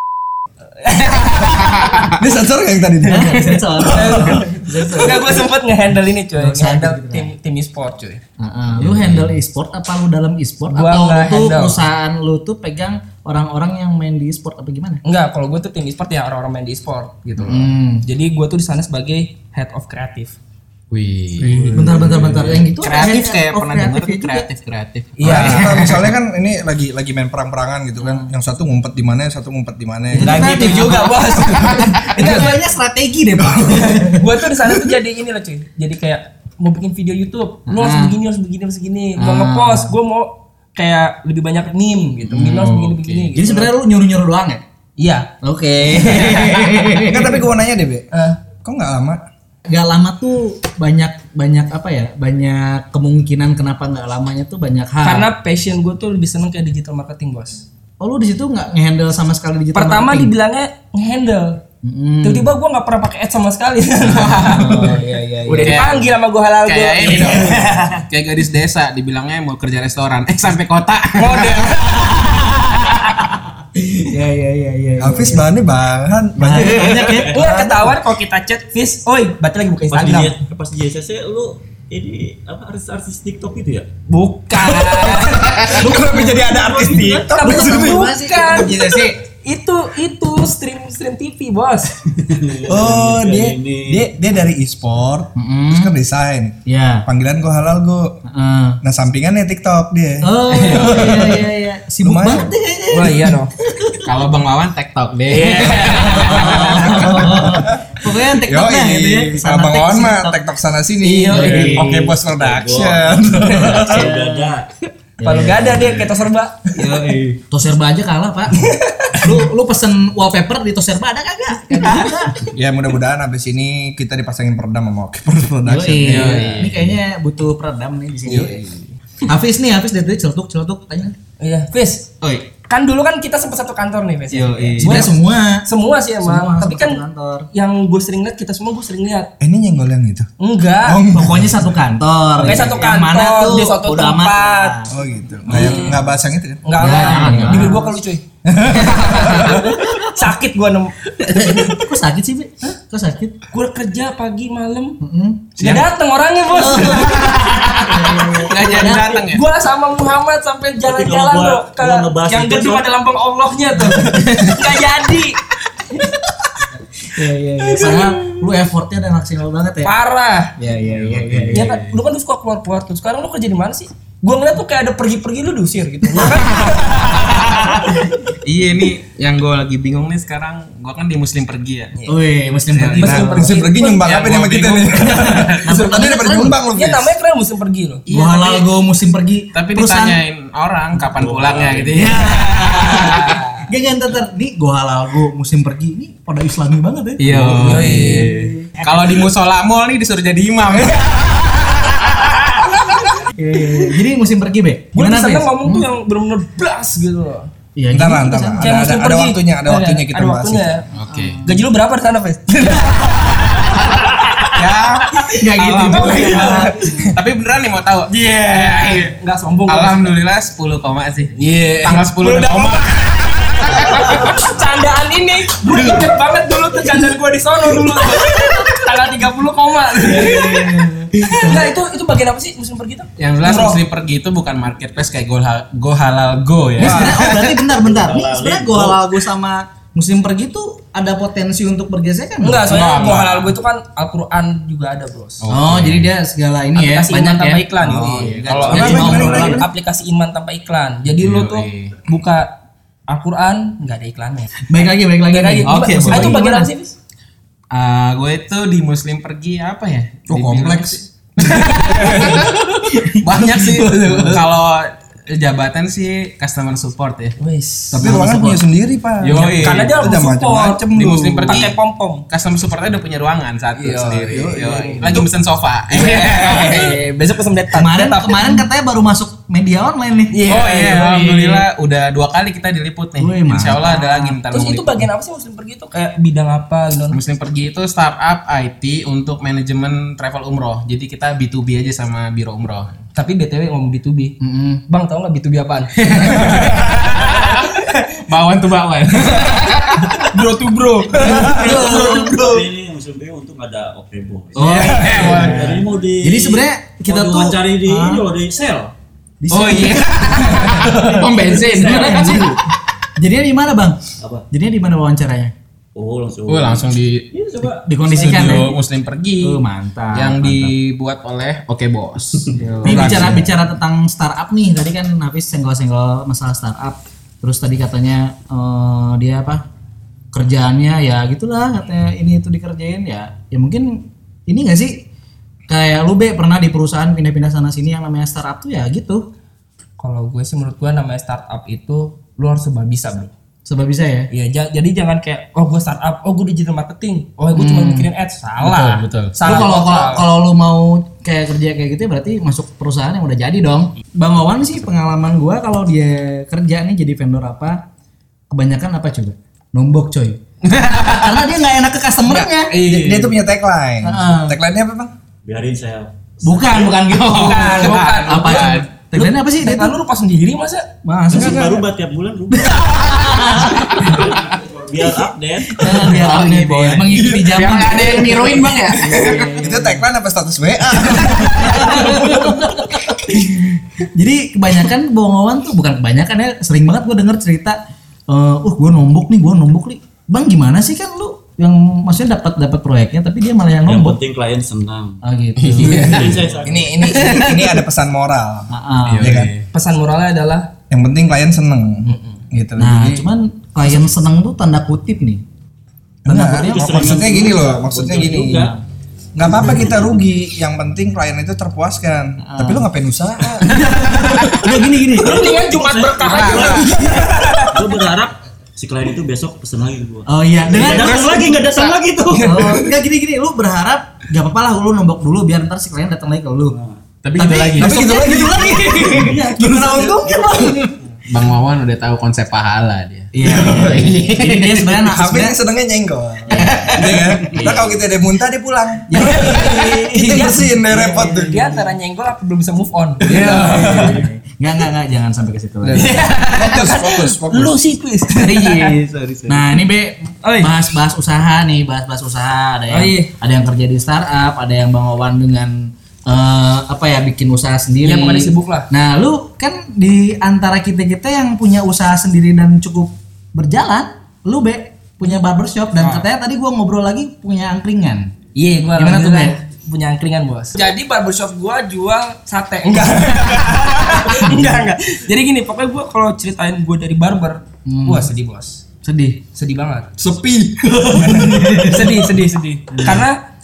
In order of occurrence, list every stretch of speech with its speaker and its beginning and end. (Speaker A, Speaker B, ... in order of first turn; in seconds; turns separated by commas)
Speaker A: 0.8-2.1, Speaker B: 1.3-2.1, Speaker C: 2.1-4.8, Speaker D: 3.0-5.5, Speaker A: 3.9-8.2, Speaker D: 6.4-7.3, Speaker D: 8.4-15.0, Speaker B: 8.8-9.3, Speaker A: 10.7-11.8, Speaker A: 15.0-20.4, Speaker D: 17.4-18.0, Speaker B: 20.9-21.7, Speaker E: 21.4-22.7, Speaker C: 21.5-21.8, Speaker D: 21.6-24.5, Speaker B: 22.8-26.1, Speaker A: 25.2-25.8, Speaker C: 25.2-31.6, Speaker D: 25.2-26.0, Speaker D: 28.0-28.3, Speaker D: 30.1-34.2, Speaker A: 30.2-32.4, Speaker B: 30.3-32.5, Speaker C: 32.1-32.5, Speaker C: 33.4-34.1, Speaker A: 34.0-43.7, Speaker D: 37.7-38.1, Speaker D: 39.2-39.9, Speaker B: 42.3-43.3, Speaker D: 42.4-42.6, Speaker D: 43.3-44.6, Speaker A: 45.0-45.3, Speaker D: 45.4-47.5, Speaker A: 45.9-46.7, Speaker C: 47.0-48.1, Speaker A: 48.1-48.4, Speaker C: 48.6-49.2, Speaker D: 49.7-55.3, Speaker A: 55.0-57.6, Speaker D: 58.0-60.3, Speaker A: 59.7-61.6, Speaker D: 61.8-62.5, Speaker A: 62.2-68.0, Speaker B: 64.0-65.0, Speaker D: 64.1-65.9, Speaker B: 65.6-66.1, Speaker B: 66.6-71.9, Speaker C: 67.0-67.8, Speaker A: 71.2-73.3, Speaker D: 73.8-75.5, Speaker C: 75.0-78.0, Speaker D: 76.4-77.4, Speaker A: 77.3-80.4, Speaker E: 79.9-83.9, Speaker A: 84.1-86.3, Speaker C: 84.6-88.1, Speaker D: 85.7-89.1, Speaker A: 87.3-92.0, Speaker B: 88.6-89.1, Speaker E: 92.1-94.1, Speaker C: 92.7-98.2, Speaker D: 95.3-95.9, Speaker D: 96.7-97.0, Speaker D: 98.3-98.8, Speaker C: 98.8-101.5, Speaker D: 100.2-104.0, Speaker B: 100.5-101.3, Speaker C: 102.0-102.5, Speaker A: 102.9-103.5, Speaker B: 104.0-107.4, Speaker D: 105.4-110.4, Speaker C: 105.8-114.1, Speaker A: 105.9-106.6, Speaker A: 111.0-111.9, Speaker D: 111.2-112.2, Speaker E: 112.2-114.7, Speaker D: 113.5-114.6, Speaker D: 115.2-116.1, Speaker A: 115.2-116.7, Speaker D: 116.8-122.4, Speaker E: 116.8-117.2, Speaker A: 118.5-119.3, Speaker C: 122.4-126.6, Speaker D: 125.6-128.6, Speaker B: 126.0-126.9, Speaker A: 128.3-128.8, Speaker D: 129.2-131.2, Speaker A: 131.4-132.1, Speaker A: 132.7-137.0, Speaker D: 134.3-135.7, Speaker D: 136.2-137.5, Speaker A: 137.5-139.3, Speaker C: 139.4-140.3, Speaker A: 140.4-141.0, Speaker C: 140.8-141.6, Speaker D: 141.1-145.9, Speaker A: 142.4-144.7, Speaker C: 144.9-146.6, Speaker A: 145.5-146.0, Speaker B: 145.5-145.9, Speaker A: 146.6-148.2, Speaker D: 146.8-148.0, Speaker B: 146.8-147.8, Speaker C: 148.4-149.8, Speaker B: 148.7-150.1, Speaker A: 149.4-151.4, Speaker B: 151.2-151.9, Speaker D: 151.3-153.4, Speaker A: 153.5-155.0, Speaker D: 155.0-155.5, Speaker A: 155.6-166.1, Speaker B: 155.6-155.8, Speaker D: 156.5-159.1, Speaker B: 156.6-157.2, Speaker B: 158.3-159.4, Speaker E: 160.8-162.9, Speaker D: 163.8-164.2, Speaker B: 164.0-164.6, Speaker D: 167.1-169.9, Speaker A: 167.7-168.2, Speaker A: 169.8-170.5, Speaker D: 170.6-171.8, Speaker B: 170.8-171.9, Speaker A: 171.5-178.0, Speaker B: 176.2-181.9, Speaker D: 182.1-183.6, Speaker B: 182.7-185.6, Speaker A: 182.8-184.0, Speaker C: 183.0-187.1, Speaker D: 185.6-186.6, Speaker A: 185.7-186.0, Speaker A: 186.7-188.6, Speaker D: 188.1-190.2, Speaker B: 189.5-193.3, Speaker E: 191.1-192.1, Speaker D: 191.9-198.7, Speaker A: 192.8-193.6, Speaker B: 197.2-202.3, Speaker A: 197.5-198.3, Speaker A: 200.8-203.9, Speaker D: 203.3-205.9, Speaker A: 204.9-207.5, Speaker D: 207.8-208.9, Speaker C: 207.9-210.8, Speaker A: 208.6-210.8, Speaker B: 210.9-211.4, Speaker D: 211.1-211.6, Speaker A: 211.4-216.7, Speaker B: 214.5-219.1, Speaker D: 215.3-216.8, Speaker A: 218.1-220.1, Speaker B: 219.7-224.5, Speaker A: 221.4-233.8, Speaker B: 225.7-226.1, Speaker D: 230.0-231.7, Speaker B: 233.2-237.6, Speaker D: 236.8-243.2, Speaker C: 236.8-237.3, Speaker E: 237.7-239.0, Speaker A: 242.4-245.4, Speaker B: 242.7-243.5, Speaker B: 245.4-246.1, Speaker D: 245.5-249.7, Speaker A: 246.7-252.5, Speaker B: 248.2-249.4, Speaker C: 248.7-249.7, Speaker E: 248.7-249.6, Speaker B: 251.2-251.9, Speaker A: 253.1-254.6, Speaker D: 254.7-256.7, Speaker A: 255.3-256.9, Speaker B: 255.7-256.4, Speaker B: 257.7-267.3, Speaker C: 260.3-262.2, Speaker A: 261.6-262.5, Speaker D: 264.0-264.4, Speaker A: 267.4-268.2, Speaker C: 267.9-271.7, Speaker D: 268.0-268.6, Speaker B: 269.2-269.9, Speaker A: 269.6-270.9, Speaker B: 270.9-271.8, Speaker A: 271.5-272.2, Speaker B: 272.3-277.0, Speaker A: 273.7-275.2, Speaker C: 274.3-275.3, Speaker A: 275.9-278.6, Speaker D: 277.7-280.4, Speaker A: 280.3-281.6, Speaker B: 280.5-285.1, Speaker D: 283.2-284.4, Speaker A: 284.5-287.2, Speaker B: 287.1-292.9, Speaker A: 293.1-294.3, Speaker D: 294.4-294.8, Speaker A: 294.9-298.2, Speaker B: 296.0-300.2, Speaker A: 299.2-302.6, Speaker D: 301.2-302.4, Speaker E: 301.6-308.9, Speaker D: 304.5-308.3, Speaker B: 304.7-305.8, Speaker A: 305.2-305.5, Speaker D: 309.4-312.6, Speaker B: 309.5-312.6, Speaker A: 310.3-310.9, Speaker E: 310.9-311.4, Speaker D: 313.2-314.0, Speaker D: 314.5-315.5, Speaker E: 315.9-317.9, Speaker B: 316.5-317.2, Speaker D: 317.8-318.8, Speaker B: 318.1-319.6, Speaker D: 319.4-320.8, Speaker B: 320.1-323.4, Speaker D: 322.6-329.6, Speaker C: 322.8-323.5, Speaker D: 330.3-335.0, Speaker D: 335.7-339.2, Speaker A: 340.0-343.3, Speaker D: 343.6-344.3, Speaker A: 344.3-350.2, Speaker D: 347.5-348.1, Speaker B: 348.6-349.6, Speaker D: 349.4-357.8, Speaker D: 358.5-362.8, Speaker B: 360.6-361.5, Speaker C: 362.2-365.1, Speaker B: 362.7-363.4, Speaker D: 364.0-364.6, Speaker E: 365.4-366.8, Speaker D: 366.4-369.9, Speaker B: 366.9-368.9, Speaker A: 367.3-370.9, Speaker D: 371.0-371.7, Speaker E: 371.3-372.8, Speaker C: 371.3-371.8, Speaker D: 372.5-374.3, Speaker B: 374.0-374.4, Speaker E: 374.2-375.9, Speaker D: 375.8-380.1, Speaker B: 375.8-379.7, Speaker C: 379.6-382.5, Speaker D: 381.1-387.8, Speaker D: 388.3-394.2, Speaker E: 393.9-395.2, Speaker D: 395.2-396.5, Speaker B: 395.6-396.4, Speaker A: 395.8-396.3, Speaker E: 395.8-397.0, Speaker C: 396.6-398.7, Speaker D: 398.7-399.4, Speaker B: 399.1-399.6, Speaker C: 399.2-399.5, Speaker A: 399.7-400.7, Speaker C: 400.9-403.3, Speaker A: 402.0-402.4, Speaker D: 402.8-405.4, Speaker C: 406.2-408.7, Speaker D: 406.2-407.4, Speaker E: 406.5-408.8, Speaker D: 408.4-408.8, Speaker C: 409.3-414.6, Speaker E: 409.4-410.1, Speaker D: 412.4-412.9, Speaker B: 413.8-414.6, Speaker D: 413.8-415.6, Speaker A: 415.1-418.0, Speaker E: 415.2-422.8, Speaker B: 416.2-416.9, Speaker D: 420.3-421.4, Speaker B: 420.9-422.0, Speaker A: 422.2-422.8, Speaker D: 422.4-426.8, Speaker E: 426.7-427.0, Speaker B: 427.2-428.2, Speaker D: 427.3-430.9, Speaker C: 427.8-430.8, Speaker E: 429.1-430.8, Speaker B: 431.3-434.9, Speaker D: 433.3-435.6, Speaker C: 433.4-434.2, Speaker C: 435.0-441.9, Speaker D: 436.5-438.0, Speaker B: 436.8-437.7, Speaker D: 439.1-441.5, Speaker A: 439.1-444.1, Speaker C: 443.2-444.2, Speaker D: 443.2-446.2, Speaker C: 445.8-447.8, Speaker A: 445.9-448.9, Speaker D: 448.3-468.3, Speaker E: 449.3-449.6, Speaker A: 450.4-450.7, Speaker A: 452.9-453.3, Speaker A: 458.0-458.9, Speaker A: 466.0-466.2, Speaker A: 468.5-478.8, Speaker D: 469.0-469.6, Speaker D: 477.9-478.3, Speaker D: 479.0-479.4, Speaker A: 479.5-480.1, Speaker C: 480.2-482.1, Speaker D: 481.1-482.1, Speaker A: 481.8-483.4, Speaker D: 482.9-483.2